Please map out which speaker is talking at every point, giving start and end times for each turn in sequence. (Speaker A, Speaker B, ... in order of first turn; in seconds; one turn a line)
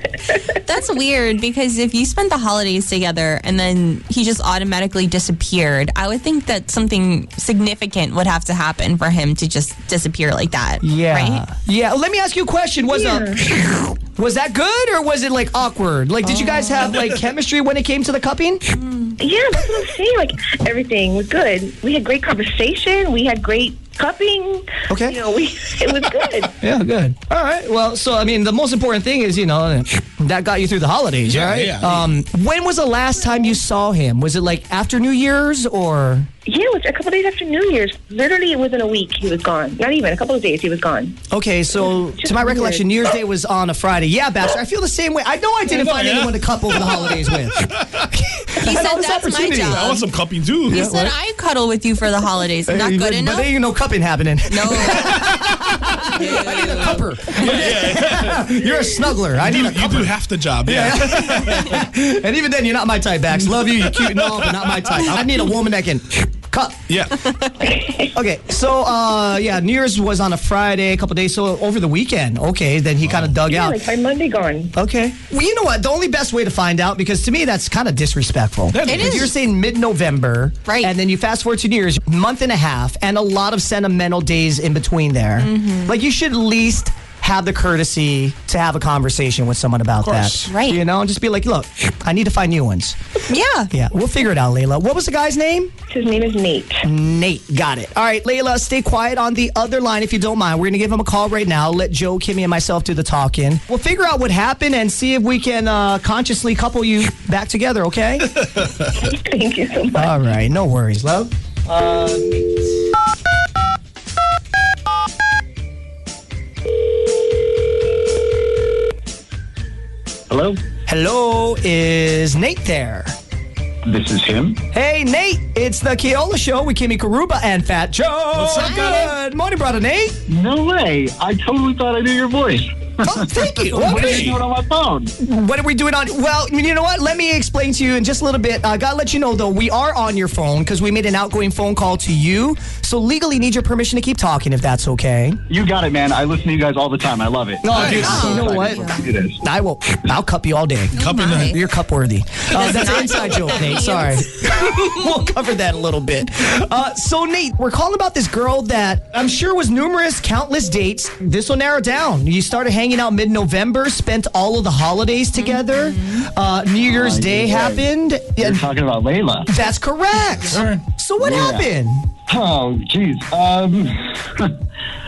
Speaker A: 0.5-11.4
Speaker B: 10.8-18.6
Speaker C: 12.9-13.4
Speaker A: 16.3-16.9
Speaker A: 18.8-19.1
Speaker C: 19.2-26.5
Speaker B: 24.9-25.2
Speaker B: 26.6-36.3
Speaker D: 31.2-32.1
Speaker C: 36.5-41.2
Speaker B: 41.3-49.9
Speaker C: 42.2-42.9
Speaker D: 45.7-48.1
Speaker A: 48.6-50.0
Speaker D: 49.7-50.8
Speaker B: 50.7-51.1
Speaker A: 50.7-53.5
Speaker B: 52.7-66.8
Speaker A: 54.5-57.5
Speaker D: 57.4-58.6
Speaker D: 59.4-61.8
Speaker D: 64.9-65.2
Speaker D: 66.9-67.3
Speaker C: 67.7-68.1
Speaker B: 68.1-73.8
Speaker D: 73.0-73.4
Speaker C: 73.5-74.8
Speaker B: 74.8-93.0
Speaker D: 78.7-79.3
Speaker A: 78.8-79.3
Speaker A: 80.7-80.9
Speaker A: 85.4-86.0
Speaker D: 90.0-90.5
Speaker A: 90.5-90.8
Speaker A: 93.3-93.7
Speaker B: 93.7-95.7
Speaker C: 95.9-96.8
Speaker B: 96.8-108.4
Speaker D: 108.4-108.8
Speaker C: 108.9-110.2
Speaker B: 109.9-112.7
Speaker E: 120.3-120.6
Speaker B: 120.9-123.1
Speaker E: 123.8-124.6
Speaker B: 124.7-130.2
Speaker D: 128.4-128.8
Speaker A: 128.5-129.2
Speaker E: 130.3-135.1
Speaker B: 133.0-134.3
Speaker D: 134.0-134.4
Speaker B: 135.2-145.4
Speaker E: 145.5-149.4
Speaker B: 147.6-168.7
Speaker D: 147.7-148.2
Speaker A: 147.9-149.1
Speaker A: 150.9-151.6
Speaker D: 151.0-151.5
Speaker A: 152.5-154.3
Speaker A: 165.3-166.3
Speaker E: 166.8-169.5
Speaker B: 169.5-172.1
Speaker D: 170.4-170.8
Speaker E: 171.2-171.7
Speaker E: 172.3-174.5